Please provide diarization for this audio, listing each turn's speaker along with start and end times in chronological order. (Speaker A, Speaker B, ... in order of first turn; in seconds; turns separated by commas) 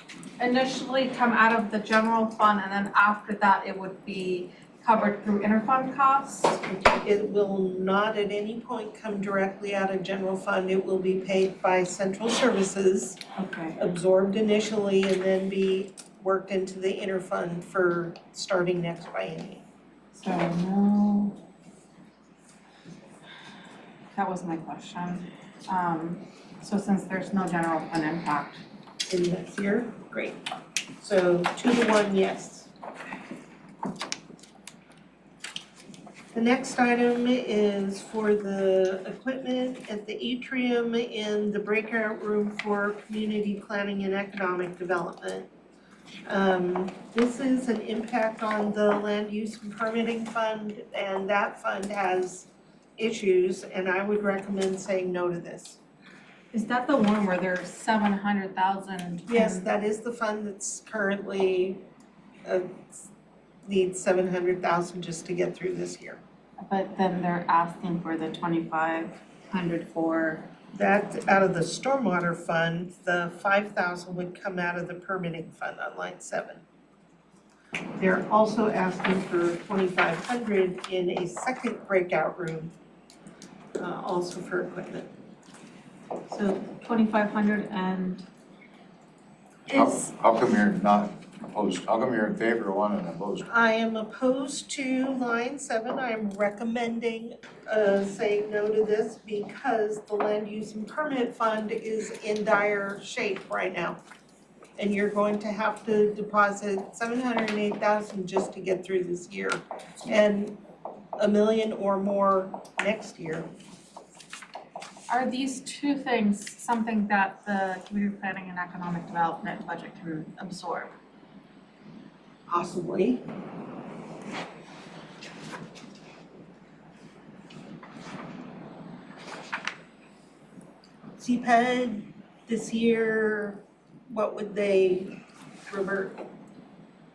Speaker A: 0.4-6.6, Speaker B: 6.9-13.2, Speaker A: 13.4-13.8, Speaker B: 13.8-19.6, Speaker A: 20.1-21.4, Speaker A: 24.1-28.6, Speaker B: 29.1-30.4, Speaker B: 31.0-32.7, Speaker B: 36.3-45.5, Speaker B: 46.3-55.8, Speaker A: 56.5-59.7, Speaker B: 59.3-61.8, Speaker B: 62.5-63.1, Speaker B: 63.7-66.2, Speaker A: 66.6-70.5, Speaker B: 70.8-76.6, Speaker B: 78.0-82.7, Speaker B: 83.8-85.1, Speaker A: 86.3-88.2, Speaker C: 89.7-93.5, Speaker B: 93.5-104.0, Speaker B: 104.8-110.6, Speaker B: 111.2-113.5, Speaker A: 115.1-120.9, Speaker B: 122.5-123.2, Speaker B: 131.2-136.2